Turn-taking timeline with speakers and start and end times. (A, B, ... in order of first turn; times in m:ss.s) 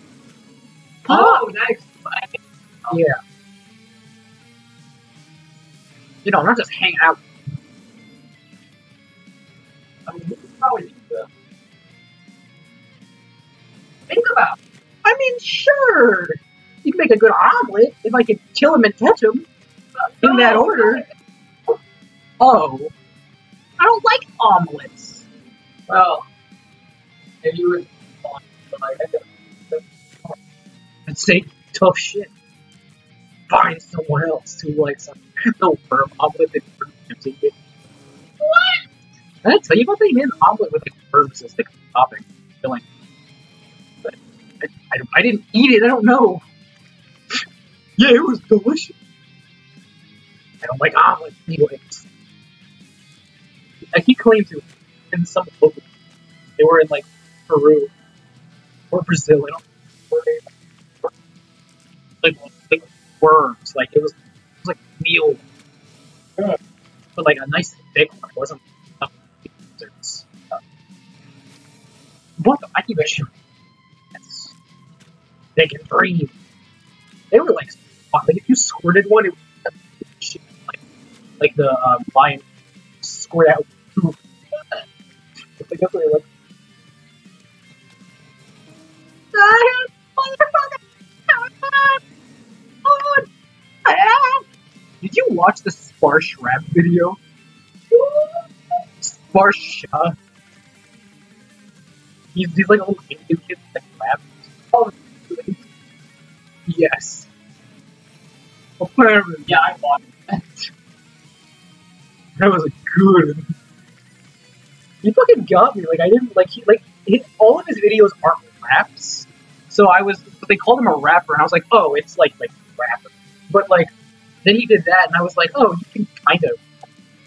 0:01.0-0:03.0 A
0:01.1-0:01.4 B
0:02.9-0:03.2 B
0:06.2-0:07.2 B
0:10.0-0:11.3 A
0:14.1-0:14.6 A
0:15.0-0:19.4 B
0:20.0-0:21.1 A
0:20.2-0:21.0 B
0:22.4-0:22.9 B
0:23.8-0:25.2 B
0:25.9-0:26.2 A
0:27.4-0:30.4 A
0:31.1-0:32.3 B
0:33.5-0:37.5 B
0:38.4-0:38.8 A
0:39.4-0:42.8 B
0:44.0-0:46.4 B
0:48.0-0:48.9 B
0:50.6-0:52.1 B
0:53.9-0:55.8 B
0:56.6-0:57.9 B
0:58.9-1:00.4 B
1:02.2-1:05.4 B
1:07.2-1:10.6 B
1:12.4-1:13.3 B
1:14.1-1:14.5 B
1:15.6-1:16.3 B
1:17.3-1:20.8 B
1:21.4-1:22.4 B
1:23.0-1:24.2 B
1:25.6-1:26.2 B
1:29.3-1:32.0 B
1:32.8-1:33.3 B
1:33.8-1:34.4 B
1:35.0-1:37.2 B
1:37.9-1:38.3 A
1:39.0-1:40.2 B
1:42.3-1:44.5 B
1:44.7-1:45.3 A
1:46.7-1:47.3 B
1:48.8-1:49.7 B
1:49.4-1:50.2 A
1:52.4-1:53.5 B
1:55.0-2:03.9 B
2:04.4-2:06.6 B